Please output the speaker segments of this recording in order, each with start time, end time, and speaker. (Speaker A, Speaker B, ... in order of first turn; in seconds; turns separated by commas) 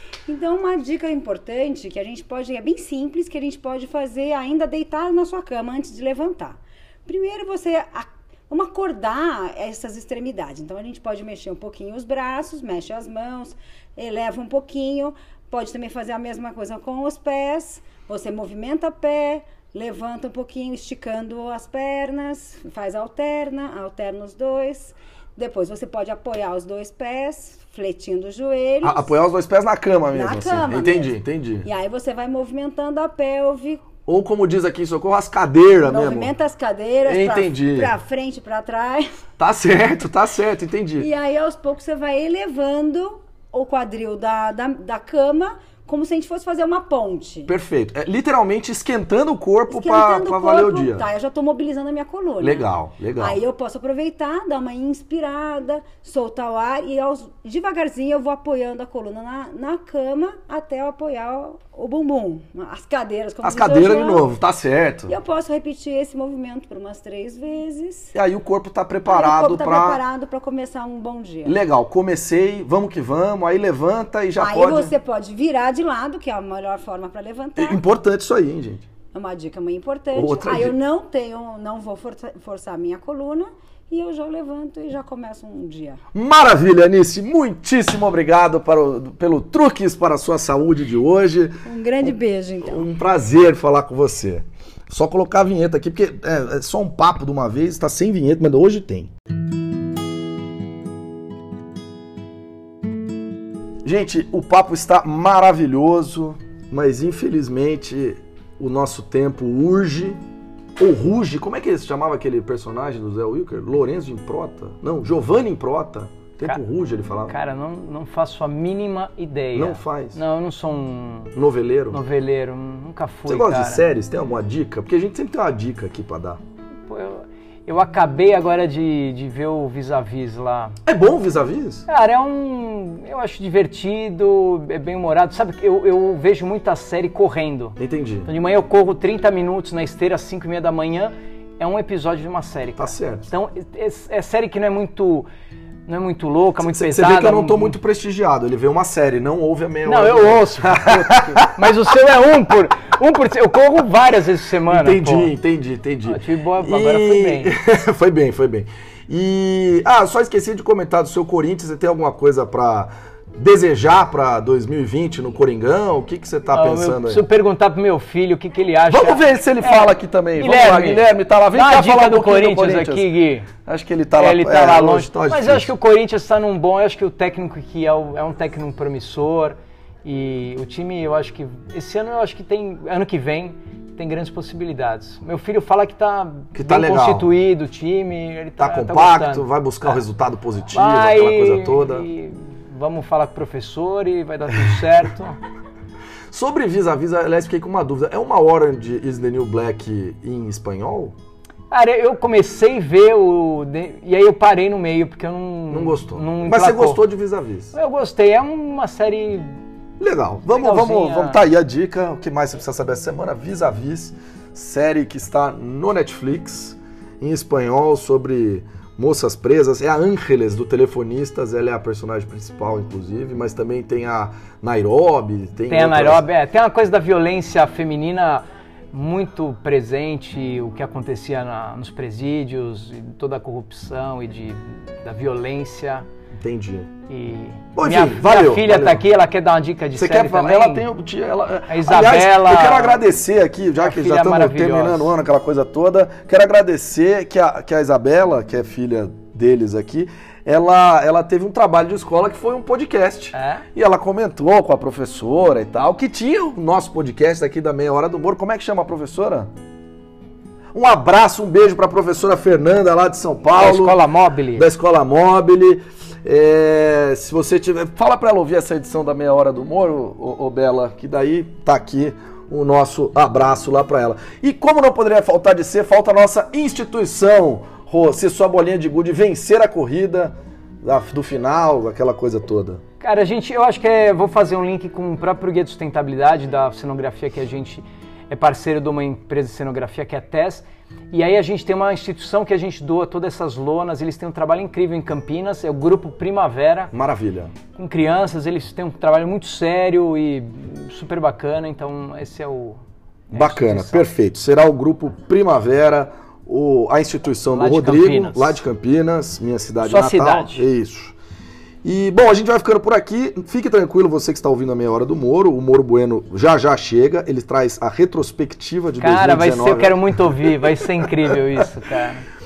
Speaker A: 0.3-29.1, Speaker B: 28.8-31.7, Speaker A: 30.1-33.8, Speaker B: 34.0-36.3, Speaker A: 35.8-39.1, Speaker B: 37.0-37.9, Speaker B: 39.4-41.1, Speaker A: 41.0-47.5, Speaker B: 47.5-51.0, Speaker A: 49.7-52.7, Speaker B: 52.4-53.4, Speaker A: 53.2-64.3, Speaker B: 63.4-65.1, Speaker A: 65.1-68.1, Speaker B: 68.1-70.0, Speaker A: 69.1-71.5, Speaker B: 71.4-74.9, Speaker A: 74.4-77.8, Speaker B: 77.6-78.8, Speaker A: 79.1-86.0, Speaker B: 80.1-80.7, Speaker B: 86.1-99.1, Speaker A: 91.6-92.9, Speaker B: 103.8-110.2, Speaker B: 110.8-117.3, Speaker C: 117.3-121.3, Speaker B: 119.5-120.2, Speaker B: 121.3-122.0, Speaker C: 121.9-123.8, Speaker B: 123.3-126.4, Speaker C: 126.9-130.8, Speaker B: 130.8-131.8, Speaker C: 131.9-145.3, Speaker B: 137.8-138.3, Speaker B: 142.8-143.3, Speaker C: 145.8-147.8, Speaker B: 146.6-151.6, Speaker C: 149.8-155.3, Speaker B: 154.7-167.2, Speaker C: 156.1-157.5, Speaker C: 166.5-173.5, Speaker B: 168.9-175.7, Speaker C: 174.2-189.9, Speaker B: 186.5-187.3, Speaker B: 188.6-192.1, Speaker C: 190.7-195.4, Speaker B: 196.3-201.1, Speaker C: 201.7-207.0, Speaker B: 205.7-207.7, Speaker C: 207.7-209.5, Speaker B: 210.0-226.2, Speaker C: 210.5-211.4, Speaker C: 225.7-236.1, Speaker B: 236.4-236.9, Speaker C: 237.1-240.8, Speaker B: 237.8-239.0, Speaker B: 239.9-259.5, Speaker C: 241.7-243.0, Speaker C: 243.8-245.1, Speaker C: 253.3-253.6, Speaker B: 260.7-264.0, Speaker C: 263.5-264.6, Speaker B: 264.5-282.8, Speaker C: 283.0-296.9, Speaker B: 296.9-297.5, Speaker C: 297.7-304.1, Speaker B: 303.3-311.1, Speaker C: 307.5-308.6, Speaker C: 309.8-310.6, Speaker B: 311.8-320.0, Speaker C: 319.0-322.2